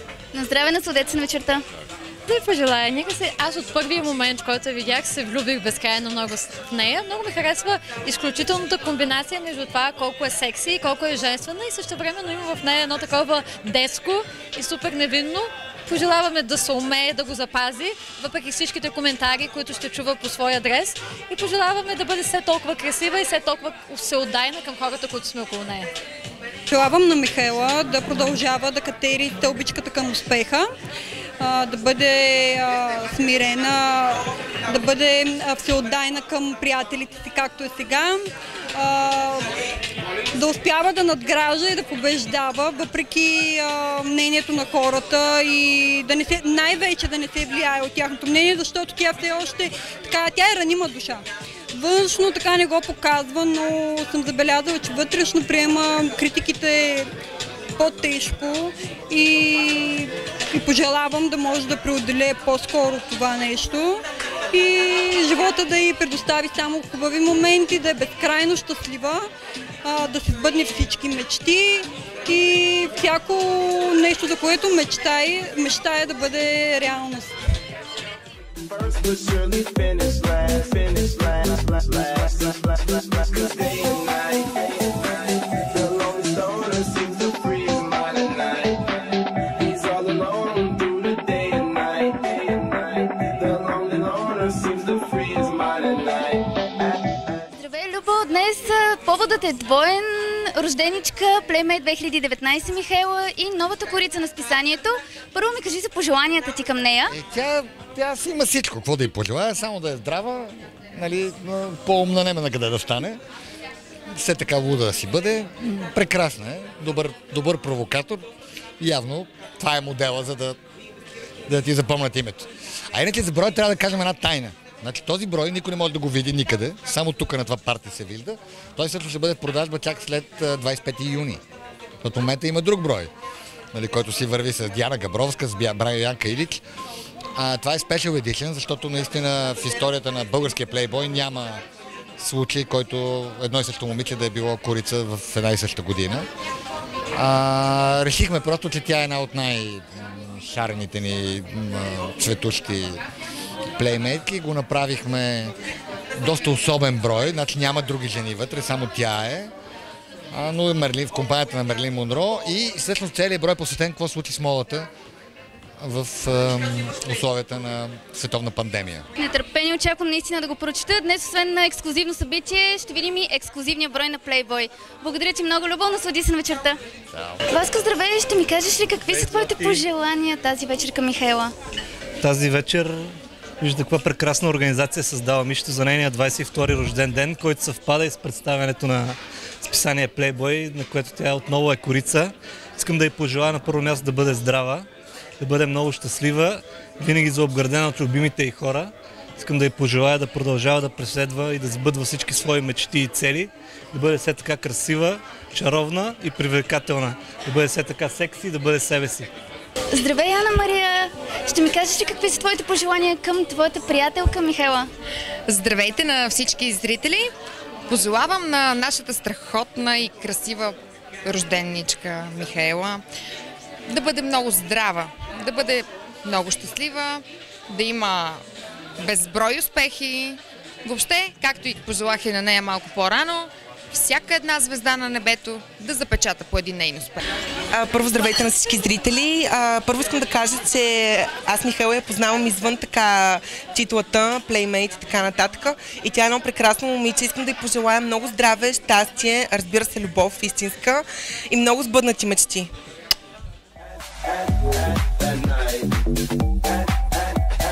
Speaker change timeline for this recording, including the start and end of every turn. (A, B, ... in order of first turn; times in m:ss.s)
0:00.3-0:01.6 A
0:02.3-0:25.9 B
0:26.7-0:30.7 C
0:31.4-0:38.2 C
0:38.8-0:39.4 C
0:40.3-0:57.1 C
0:57.8-1:04.0 C
1:04.5-1:09.3 C
1:09.8-1:17.3 C
1:18.7-1:28.9 D
1:29.6-1:36.4 D
1:37.5-1:47.1 A
1:47.1-1:53.2 E
1:54.1-1:58.2 E
1:58.8-2:00.6 E
2:01.5-2:11.4 E
2:12.0-2:13.1 E
2:13.7-2:16.6 E
2:17.3-2:21.6 E
2:22.2-2:26.3 E
2:27.2-2:33.0 E
2:33.8-2:35.5 E
2:36.2-2:39.5 E
2:40.3-2:44.9 E
2:45.8-2:49.0 E
2:49.2-2:56.8 A
2:57.1-2:57.4 E
2:57.5-3:01.5 A
2:59.0-2:59.8 F
3:02.2-3:03.1 F
3:03.6-3:14.9 F
3:15.4-3:29.3 F
3:29.9-3:34.9 A
3:35.5-3:37.3 G
3:37.9-3:43.0 G
3:43.9-3:48.4 G
3:49.0-3:57.2 G
3:57.7-4:12.7 H